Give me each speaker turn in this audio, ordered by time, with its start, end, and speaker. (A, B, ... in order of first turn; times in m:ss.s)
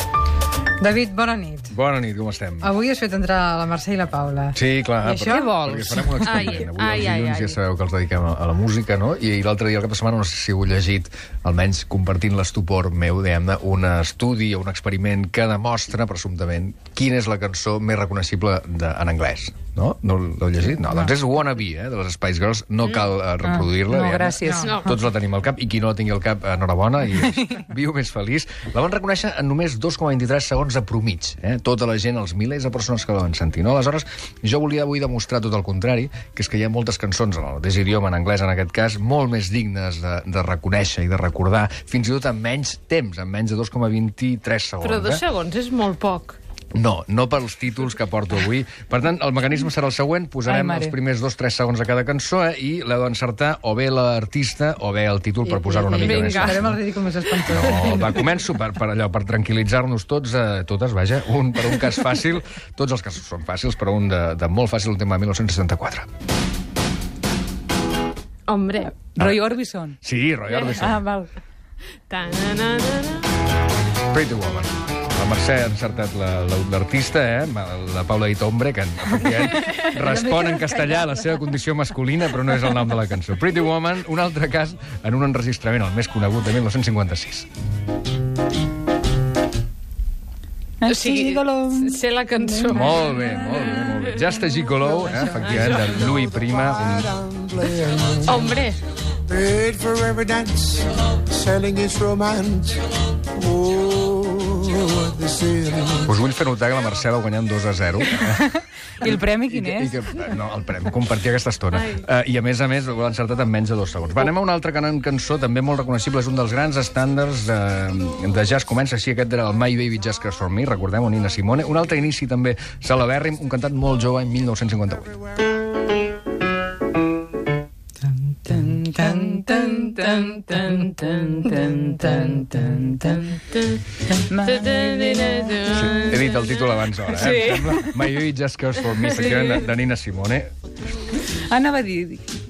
0:00.8-0:01.8 A
0:01.7-0:02.7 B
0:02.6-0:06.3 A
0:04.5-0:45.2 B
0:05.2-0:05.9 C
0:06.2-0:07.6 D
0:22.8-0:23.1 D
0:23.4-0:24.9 C
0:24.6-0:24.9 D
0:44.8-0:46.4 D
0:46.7-0:56.8 B
0:50.4-0:51.0 C
0:55.4-0:58.2 A
0:55.9-0:56.7 D
0:57.5-1:06.1 B
1:08.5-1:09.0 D
1:09.1-1:10.0 C
1:09.2-1:11.0 B
1:10.5-1:10.9 D
1:10.8-1:11.3 C
1:12.1-1:13.2 D
1:14.1-1:27.5 B
1:20.2-1:21.2 C
1:30.8-1:32.0 C
1:30.8-1:34.3 D
1:32.7-1:37.1 B
1:35.3-1:36.0 D
1:35.7-1:38.6 E
1:38.2-1:38.8 D
1:39.3-1:46.1 E
1:46.0-1:48.5 B
1:49.0-1:49.9 C
1:49.0-2:05.2 B
1:51.7-1:52.0 D
2:08.4-2:13.3 C
2:08.9-2:10.2 A
2:10.6-2:11.3 D
2:13.2-2:13.8 D
2:14.3-2:15.6 C
2:14.4-2:16.6 D
2:15.7-2:20.5 B
2:17.1-2:17.9 C
2:21.3-2:22.2 C